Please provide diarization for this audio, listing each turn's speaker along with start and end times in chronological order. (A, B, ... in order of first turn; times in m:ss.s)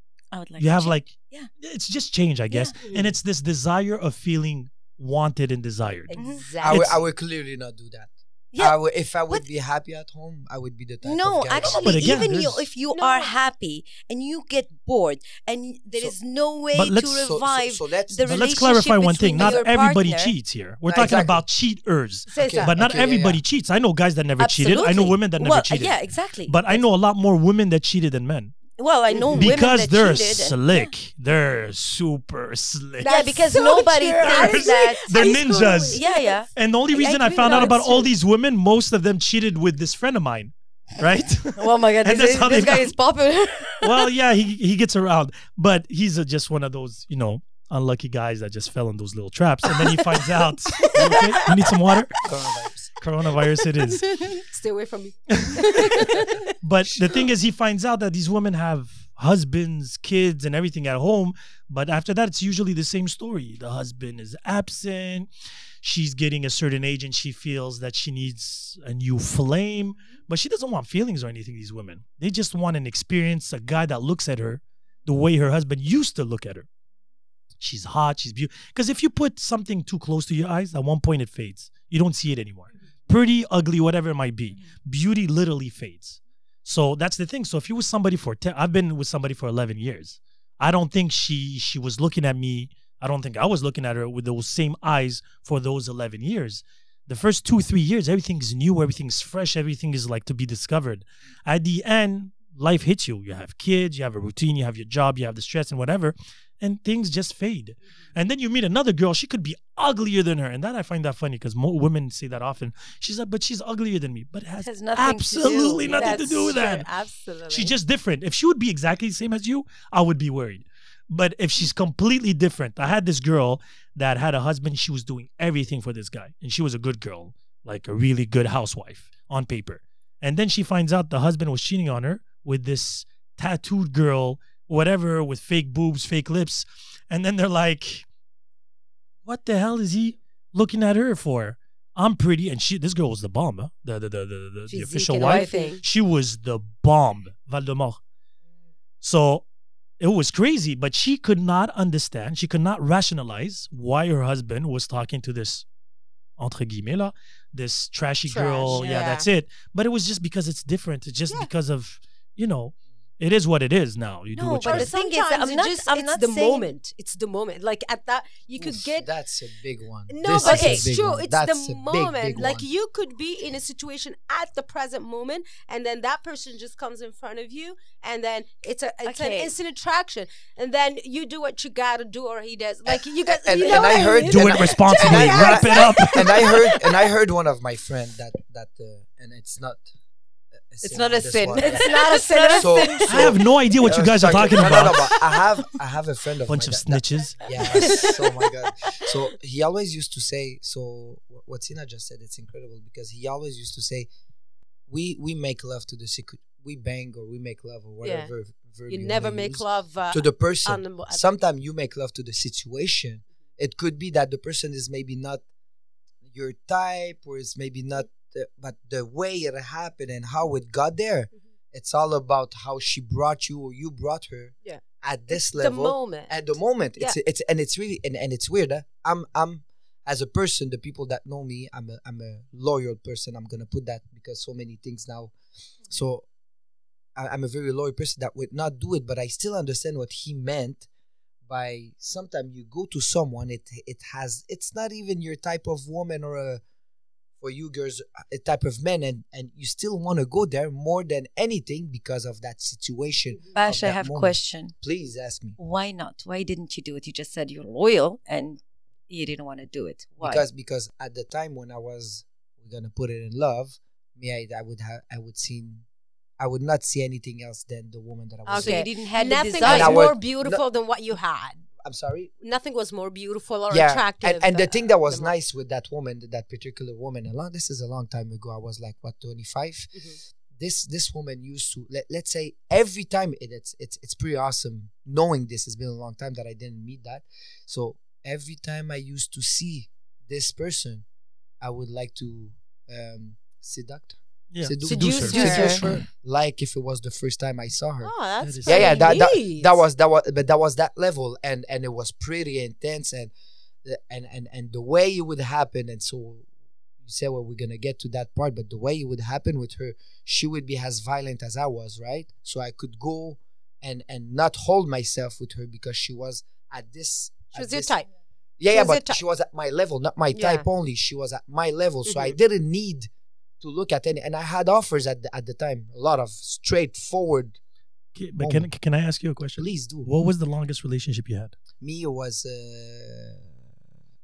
0:00.3-0:01.5 A
0:00.6-0:07.0 B
0:02.5-0:02.8 A
0:02.8-0:03.1 C
0:06.1-0:06.9 C
0:06.1-0:06.4 A
0:06.6-0:12.1 D
0:08.5-0:09.4 A
0:11.0-0:20.3 A
0:11.6-0:12.7 B
0:12.9-0:13.4 C
0:16.7-0:17.2 B
0:17.2-0:18.5 D
0:18.3-0:26.0 B
0:20.9-0:21.4 D
0:22.3-0:22.8 C
0:22.4-0:23.4 D
0:24.4-0:26.8 A
0:26.5-0:28.6 B
0:28.8-0:30.8 A
0:29.1-0:29.6 C
0:29.3-0:33.1 B
0:33.0-0:36.4 C
0:33.0-0:35.2 A
0:34.2-0:36.0 B
0:35.9-0:36.5 A
0:36.5-0:43.0 B
0:36.9-0:38.1 C
0:37.4-0:37.8 A
0:41.6-0:44.0 A
0:43.8-0:52.2 B
0:50.8-0:51.4 A
0:52.2-0:52.9 D
0:53.0-0:54.4 B
0:54.1-0:56.4 C
0:55.3-1:05.3 B
1:05.8-1:16.7 B
1:17.6-1:56.9 B
1:54.6-1:56.4 A
1:55.9-1:57.7 C
1:57.5-2:18.0 B
2:19.2-2:28.0 B
2:24.7-2:25.8 C
2:25.2-2:25.8 A
2:29.0-2:29.4 B
2:30.0-2:35.7 B
2:36.4-2:44.9 B
2:38.3-2:39.3 C
2:44.3-2:46.7 A
2:44.6-2:49.1 C
2:48.6-2:52.7 D
2:50.1-3:06.9 C
2:50.4-2:50.9 A
2:59.0-2:59.5 A
3:03.3-3:09.9 D
3:04.2-3:06.7 B
3:10.7-3:11.9 D
3:10.8-3:13.2 A
3:11.6-3:13.2 C
3:12.5-3:24.1 D
3:13.1-3:15.2 B
3:16.5-3:17.9 B
3:17.8-3:18.1 C
3:24.9-3:35.4 D
3:28.0-3:28.3 C
3:28.9-3:31.2 C
3:36.2-3:55.3 D
3:44.6-3:46.3 C
3:55.9-3:56.3 D
3:57.2-4:00.9 D
4:01.5-4:06.6 D
4:07.4-4:15.6 D
4:13.6-4:14.7 A
4:15.6-4:20.5 A
4:20.2-4:25.8 D
4:26.4-4:28.9 D
4:28.5-4:31.6 C
4:28.6-4:30.1 A
4:29.6-4:30.6 D
4:31.8-4:32.3 D
4:32.4-4:35.3 C
4:33.7-4:40.0 D
4:40.6-4:51.0 D
4:51.6-4:58.1 D
4:54.5-4:56.0 B
4:54.8-4:55.8 C
4:55.3-4:55.9 A
4:58.0-4:59.8 C
4:58.4-4:59.2 B
4:58.6-5:03.3 D
5:03.8-5:06.5 D
5:07.0-5:18.0 D
5:17.5-5:18.1 C
5:18.6-5:23.1 D
5:18.7-5:19.2 C
5:20.3-5:20.7 C
5:22.1-5:22.4 C
5:23.6-5:27.6 D
5:28.2-5:31.6 B
5:28.4-5:28.7 D
5:29.6-5:30.1 D
5:31.8-5:33.6 D